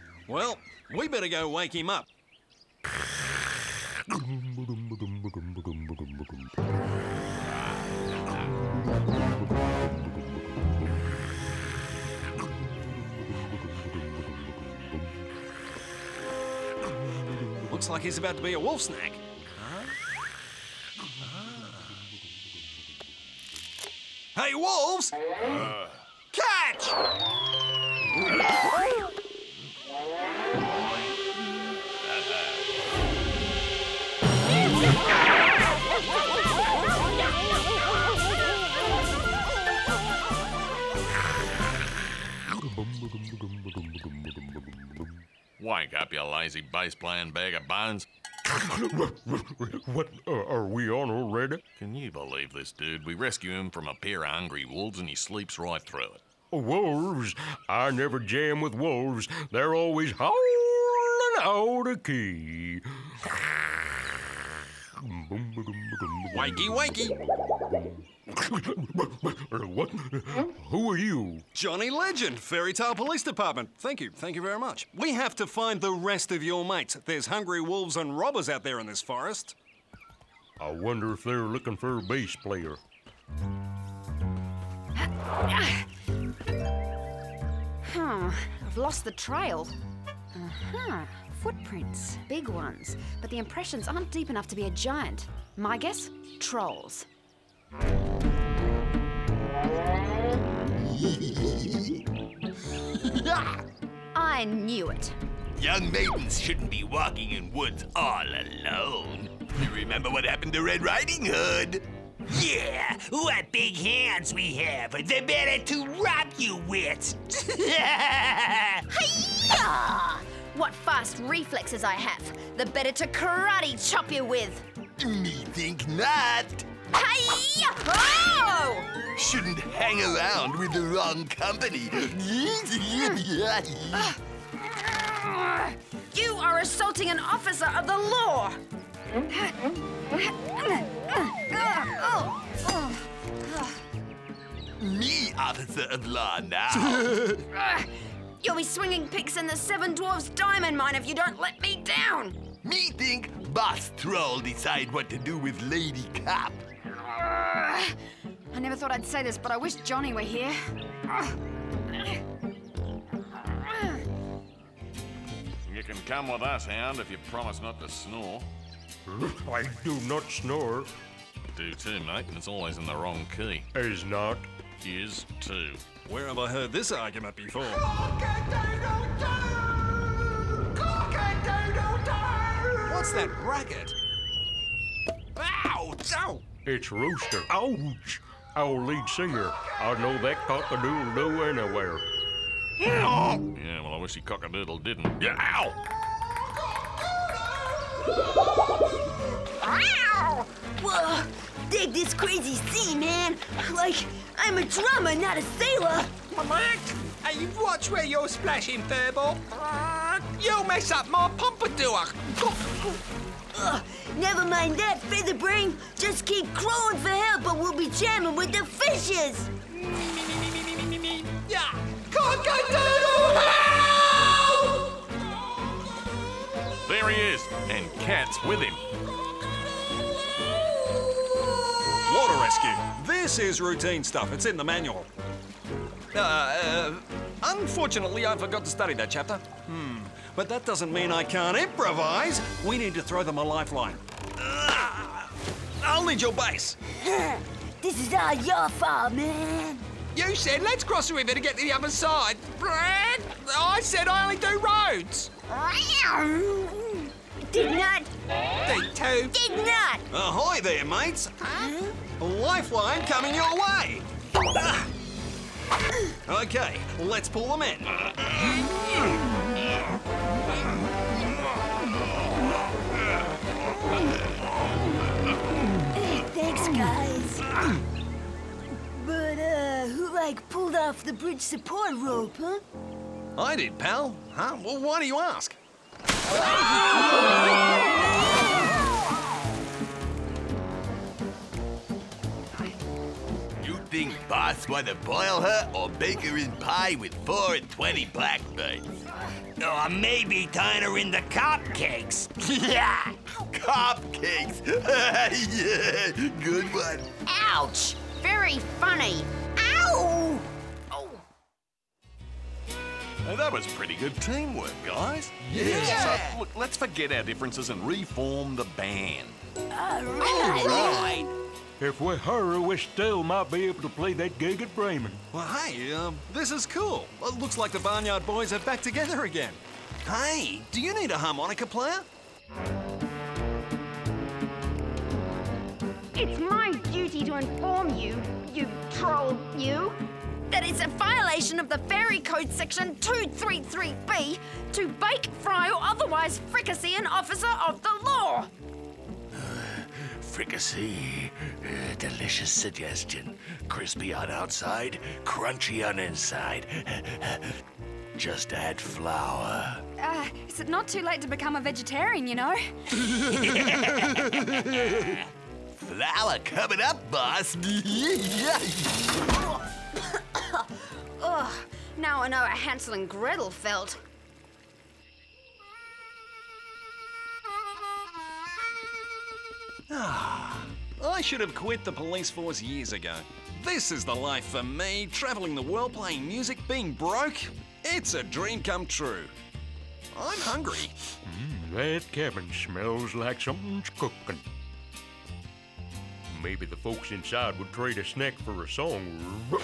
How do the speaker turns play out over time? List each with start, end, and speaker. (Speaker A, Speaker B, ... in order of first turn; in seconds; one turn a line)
Speaker A: 0.3-2.1
Speaker A: 17.6-19.9
Speaker A: 21.2-22.0
Speaker A: 24.4-25.1
Speaker A: 26.3-27.0
Speaker B: 42.6-44.7
Speaker C: 45.6-48.1
Speaker B: 48.5-51.6
Speaker C: 51.8-56.2
Speaker B: 56.5-62.8
Speaker B: 65.1-66.3
Speaker A: 66.3-67.2
Speaker B: 68.4-71.4
Speaker A: 71.5-79.5
Speaker B: 80.6-82.8
Speaker D: 85.0-85.9
Speaker D: 87.8-89.8
Speaker D: 90.3-97.1
Speaker E: 101.3-101.6
Speaker E: 103.0-103.6
Speaker D: 104.1-105.2
Speaker E: 105.6-118.8
Speaker D: 119.0-124.6
Speaker E: 125.0-126.7
Speaker D: 126.9-128.9
Speaker E: 129.2-134.2
Speaker D: 134.8-138.6
Speaker D: 139.3-139.6
Speaker D: 140.1-143.8
Speaker E: 144.8-147.3
Speaker D: 147.5-152.4
Speaker E: 152.6-156.6
Speaker D: 157.0-158.0
Speaker D: 158.5-161.3
Speaker D: 163.5-164.0
Speaker C: 165.7-168.5
Speaker B: 169.1-170.9
Speaker C: 171.5-173.7
Speaker B: 173.8-174.5
Speaker C: 174.8-175.8
Speaker A: 176.1-177.8
Speaker F: 181.1-182.5
Speaker A: 182.8-183.9
Speaker F: 185.4-186.4
Speaker B: 186.7-192.0
Speaker C: 193.2-195.8
Speaker G: 199.6-206.2
Speaker F: 206.3-212.9
Speaker G: 213.5-219.5
Speaker F: 219.7-224.3
Speaker C: 226.9-228.8
Speaker A: 232.0-235.1
Speaker A: 236.1-246.8
Speaker G: 247.0-249.9
Speaker F: 250.1-255.3
Speaker G: 255.5-258.1
Speaker F: 258.6-259.4
Speaker G: 259.4-260.0
Speaker A: 260.1-261.3
Speaker A: 262.1-264.9
Speaker A: 266.2-267.9
Speaker G: 275.9-277.6
Speaker G: 278.9-282.6
Speaker A: 283.4-285.6
Speaker E: 293.6-298.9
Speaker E: 302.4-307.1
Speaker D: 307.2-309.3
Speaker G: 309.6-310.4
Speaker C: 313.2-319.4
Speaker A: 315.5-316.0
Speaker G: 315.7-316.2
Speaker G: 319.8-321.3
Speaker B: 321.8-325.2
Speaker A: 325.3-332.1
Speaker D: 336.1-339.9
Speaker D: 340.5-348.5
Speaker E: 349.3-357.5
Speaker E: 358.1-359.8
Speaker D: 360.0-363.1
Speaker E: 363.1-369.1
Speaker D: 363.8-364.1
Speaker D: 370.1-370.6
Speaker D: 371.2-374.0
Speaker A: 379.9-389.3
Speaker A: 390.1-390.9
Speaker B: 391.3-394.4
Speaker B: 396.3-399.5